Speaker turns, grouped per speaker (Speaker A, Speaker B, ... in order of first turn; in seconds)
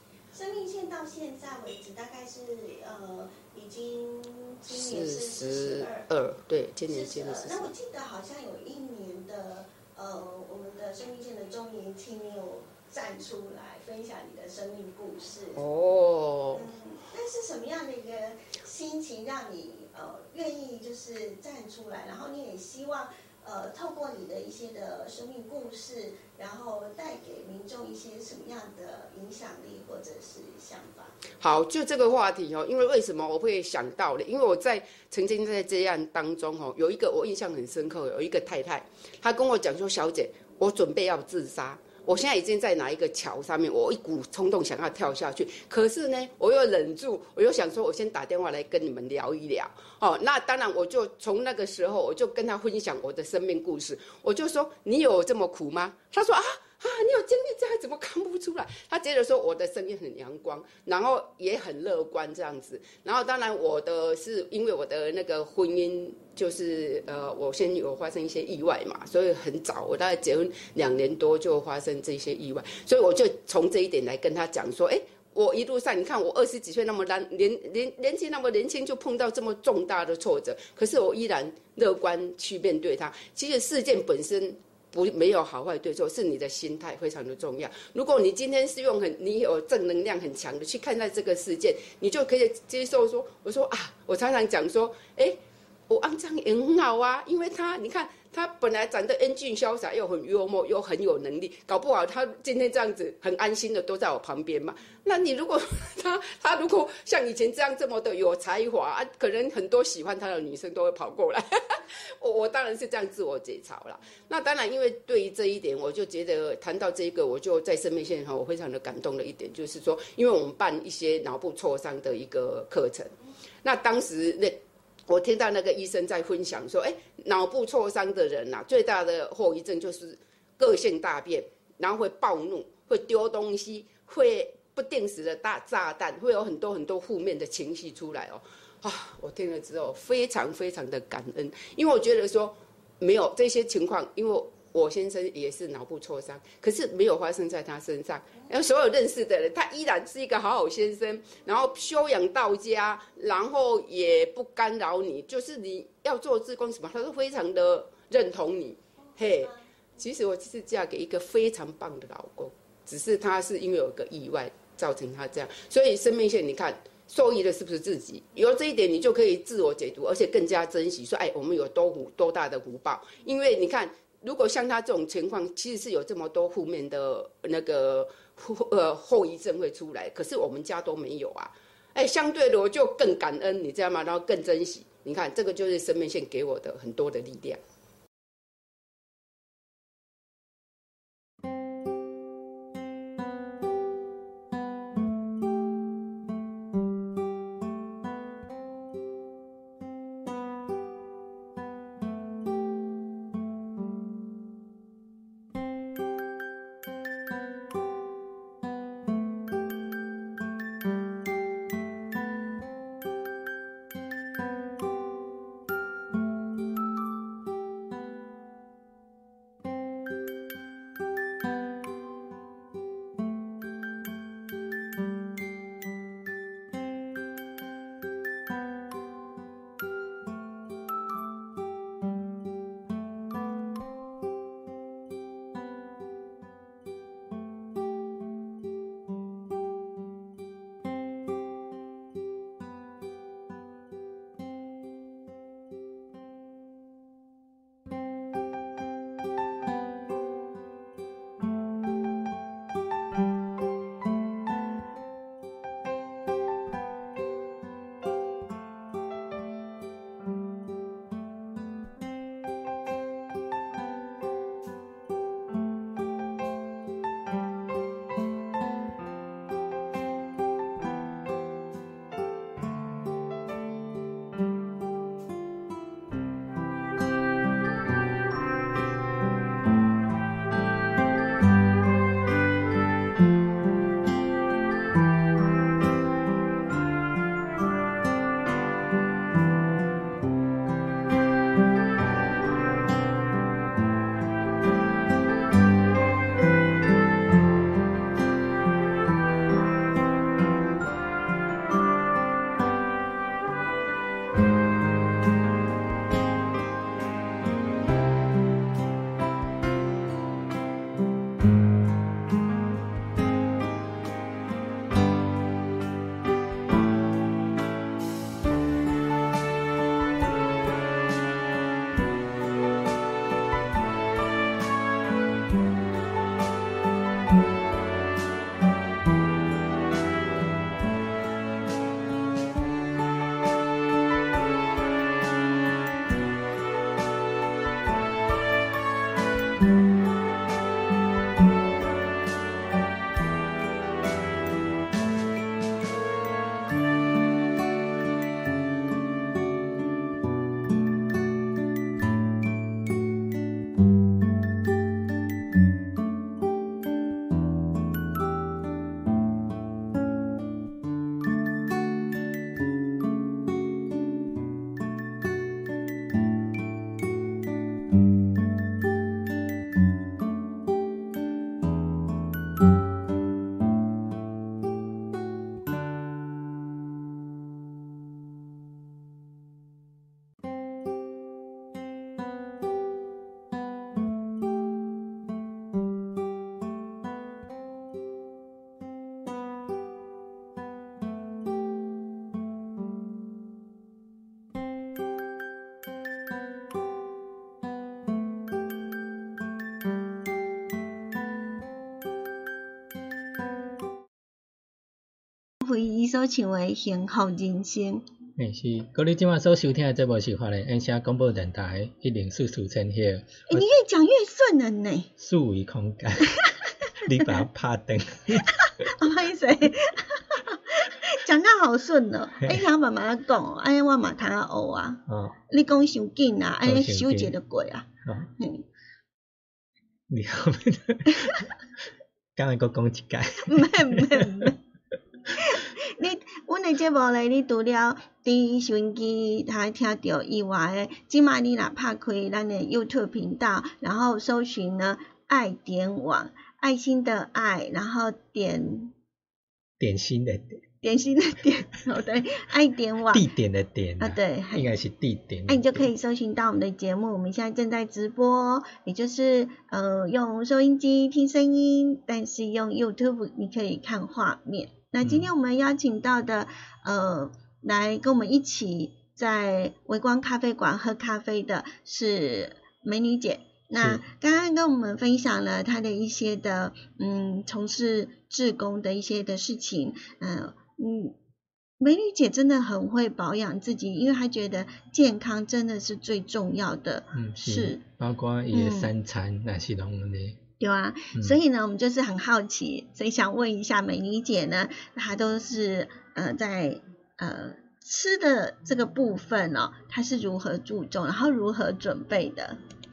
Speaker A: 0.3-6.1, 6.9-15.6, 16.5-31.2, 159.2-159.6
Speaker B: 4.7-7.7, 15.6-16.7, 31.4-187.6
Speaker C: 405.6-408.0, 413.5-415.1, 418.6-428.6, 433.4-434.6, 435.3-448.9, 450.8-453.3, 454.0-454.6, 455.5-481.1, 481.8-487.8, 488.5-488.9, 490.6-502.6
Speaker D: 408.4-413.7, 415.2-416.4, 417.0-418.5, 425.1-425.4, 426.6-427.4, 428.1-428.3, 430.1-431.5, 432.4-434.5, 449.8-450.6, 453.1-455.9, 465.0-465.3, 473.8-474.0, 487.1-490.4